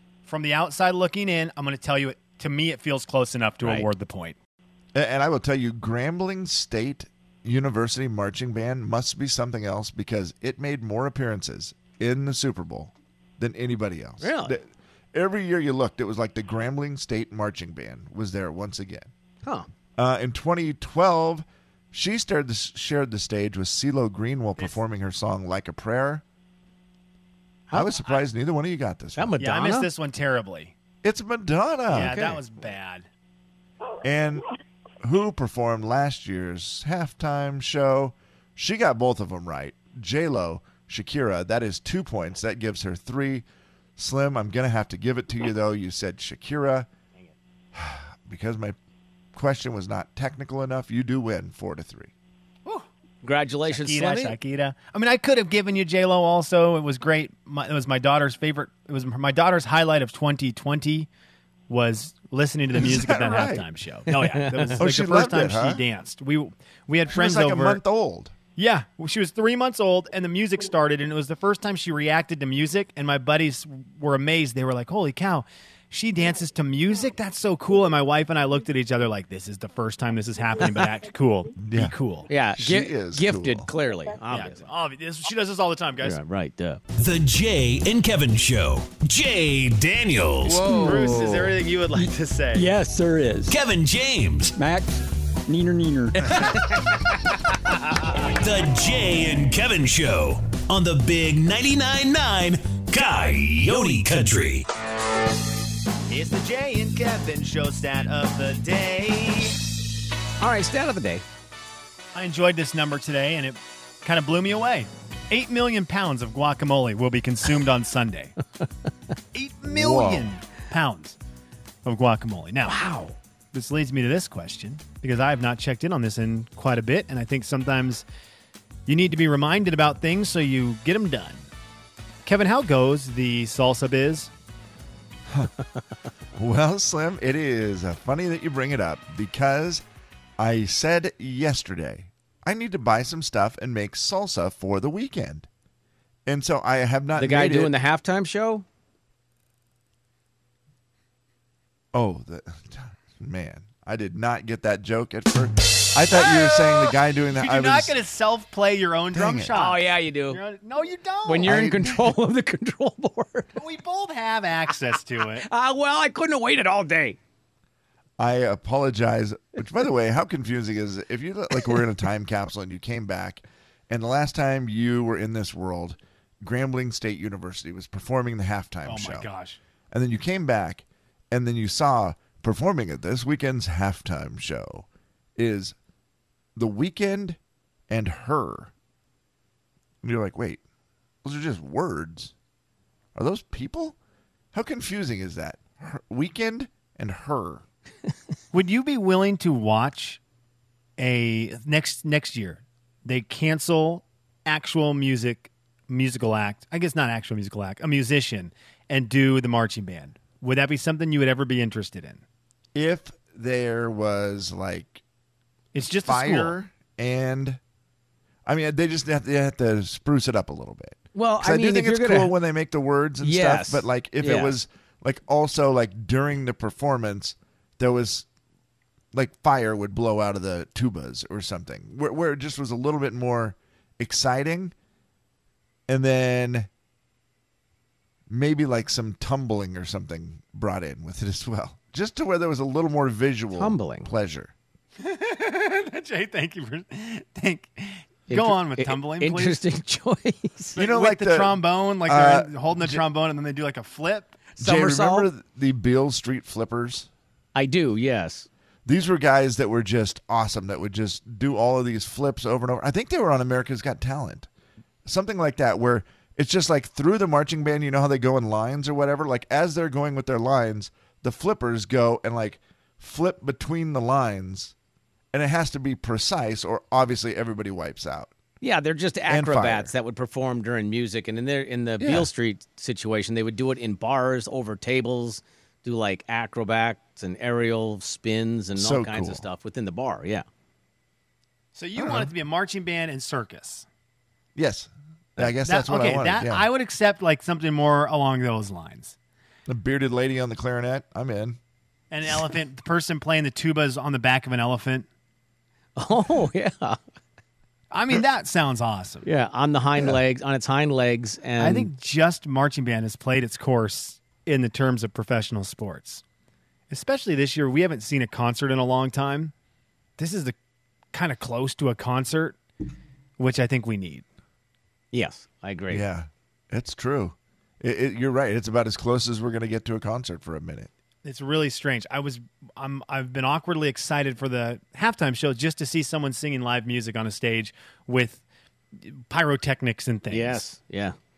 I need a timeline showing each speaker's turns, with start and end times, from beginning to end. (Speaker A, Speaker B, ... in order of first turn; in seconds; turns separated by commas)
Speaker A: 0.2-4.4, Speaker B: 4.9-19.1, Speaker C: 14.2-14.6, Speaker B: 20.0-26.2, Speaker C: 27.7-28.2, Speaker B: 27.7-29.4, Speaker C: 29.2-29.9, Speaker A: 29.4-30.7, Speaker B: 31.0-32.6, Speaker A: 31.9-33.1, Speaker B: 34.0-34.5, Speaker B: 35.0-43.5, Speaker B: 44.0-46.9, Speaker B: 47.7-48.8, Speaker B: 49.3-52.1, Speaker C: 53.2-54.4, Speaker A: 53.7-61.1, Speaker A: 61.7-67.8, Speaker B: 62.8-63.7, Speaker C: 64.1-64.8, Speaker B: 64.8-65.8, Speaker B: 67.1-68.3, Speaker A: 68.6-82.3, Speaker B: 81.6-82.0, Speaker C: 82.3-84.7, Speaker B: 82.5-83.7, Speaker A: 84.3-86.2, Speaker C: 86.0-86.8, Speaker D: 87.0-90.7, Speaker E: 90.4-93.6, Speaker A: 90.5-92.7, Speaker D: 93.5-94.5, Speaker E: 94.5-96.6, Speaker D: 98.3-104.7, Speaker A: 106.1-109.6, Speaker C: 110.4-111.2, Speaker A: 112.2-118.4, Speaker A: 119.3-121.2, Speaker C: 119.7-120.3, Speaker A: 121.8-122.8, Speaker C: 122.7-123.2, Speaker A: 123.5-128.1, Speaker A: 128.9-131.5, Speaker A: 132.3-134.3, Speaker B: 136.4-139.8, Speaker B: 140.4-145.5, Speaker B: 146.3-147.7, Speaker C: 147.2-148.6, Speaker B: 151.9-157.9, Speaker A: 156.1-161.6, Speaker B: 159.1-159.5, Speaker C: 159.5-160.4, Speaker C: 161.2-163.6, Speaker B: 161.4-162.2, Speaker A: 163.6-165.5, Speaker C: 165.4-167.2, Speaker B: 168.2-179.3, Speaker A: 178.8-179.6, Speaker B: 179.9-185.8, Speaker B: 186.6-187.4, Speaker B: 187.9-188.7, Speaker B: 190.0-190.6, Speaker B: 191.2-192.3, Speaker B: 193.2-194.0, Speaker B: 194.5-197.7, Speaker A: 198.5-200.2, Speaker A: 201.0-212.2, Speaker B: 212.7-215.0, Speaker A: 215.7-216.6, Speaker B: 216.0-217.6, Speaker B: 218.5-228.3, Speaker C: 221.2-222.3, Speaker C: 223.2-224.6, Speaker B: 229.1-234.7, Speaker B: 235.9-236.7, Speaker B: 238.3-244.5, Speaker C: 243.5-244.1, Speaker A: 245.0-249.6, Speaker C: 248.3-250.8, Speaker B: 250.8-253.0, Speaker A: 250.8-254.4, Speaker C: 254.6-255.3, Speaker B: 254.6-257.1, Speaker C: 257.6-258.5, Speaker B: 258.9-264.5, Speaker B: 265.1-274.7, Speaker B: 275.3-278.4, Speaker C: 278.6-290.4, Speaker B: 279.3-279.9, Speaker B: 282.0-282.3, Speaker B: 288.8-289.4, Speaker A: 291.8-293.9, Speaker B: 292.0-292.3, Speaker B: 294.6-296.7, Speaker A: 295.6-299.1, Speaker B: 299.7-301.6, Speaker A: 302.1-305.1, Speaker C: 306.0-307.0, Speaker A: 307.9-309.3, Speaker C: 309.2-311.9, Speaker A: 311.6-316.2, Speaker A: 316.9-319.5, Speaker A: 320.2-320.6, Speaker A: 321.1-322.6, Speaker A: 323.4-324.2, Speaker C: 325.1-326.0, Speaker B: 325.9-330.9, Speaker A: 331.2-338.4, Speaker A: 339.0-340.6, Speaker C: 340.3-341.1